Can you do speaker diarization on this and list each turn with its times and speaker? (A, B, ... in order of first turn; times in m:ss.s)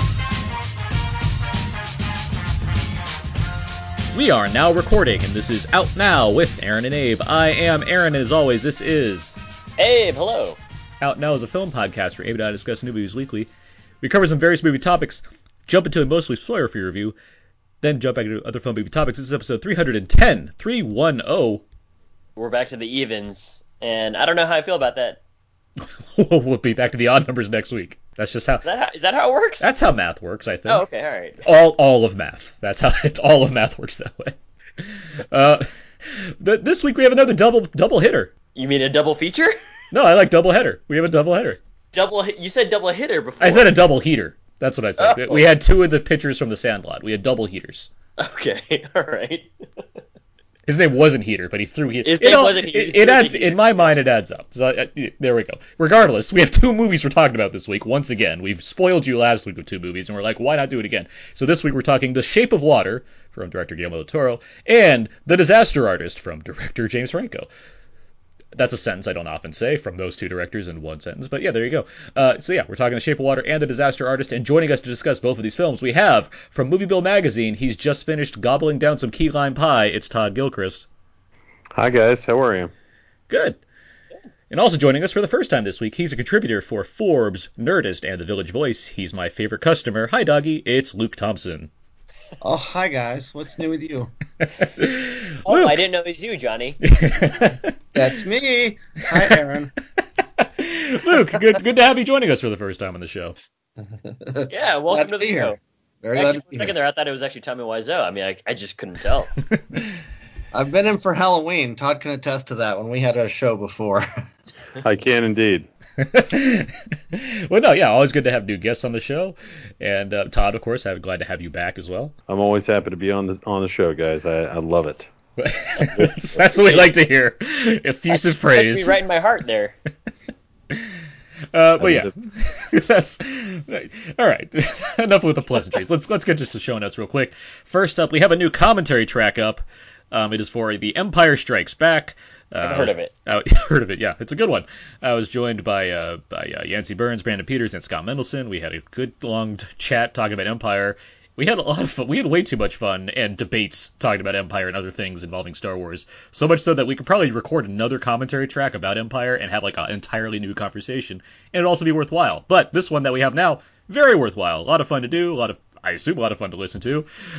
0:04.1-0:09.4 A
0:09.8-0:10.6 B
0:11.0-0:13.5 A
0:14.0-0:17.2 A
0:17.8-0:21.6 A
0:22.4-0:25.2 B
0:26.2-0:28.6 A
0:28.6-0:29.7 B
0:29.6-0:30.8 A
0:30.7-0:31.4 B
0:31.4-0:38.3 A
0:38.6-0:39.6 B
0:39.9-0:41.6 A
0:41.9-0:43.7 B
0:43.4-0:47.9 A
0:45.0-0:45.5 B
0:48.2-0:49.5 B
0:50.7-1:07.5 A
0:52.0-0:54.0 B
1:08.6-1:20.9 A
1:21.8-1:22.7 C
1:23.3-1:23.6 A
1:24.5-1:31.7 A
1:32.4-1:34.1 D
1:34.8-1:35.8 A
1:35.5-1:36.8 B
1:36.8-1:37.7 A
1:38.0-1:39.7 D
1:40.4-1:43.4 A
1:44.2-1:46.7 D
1:44.5-1:45.6 B
1:46.2-1:49.3 B
1:50.5-1:54.1 D
1:54.8-1:55.7 C
1:56.0-2:02.1 A
2:02.3-2:05.1 C
2:05.4-2:09.0 A
2:06.4-2:06.9 B
2:08.1-2:09.8 B
2:11.5-2:47.1 A
2:11.8-2:12.1 C
2:22.6-2:23.1 B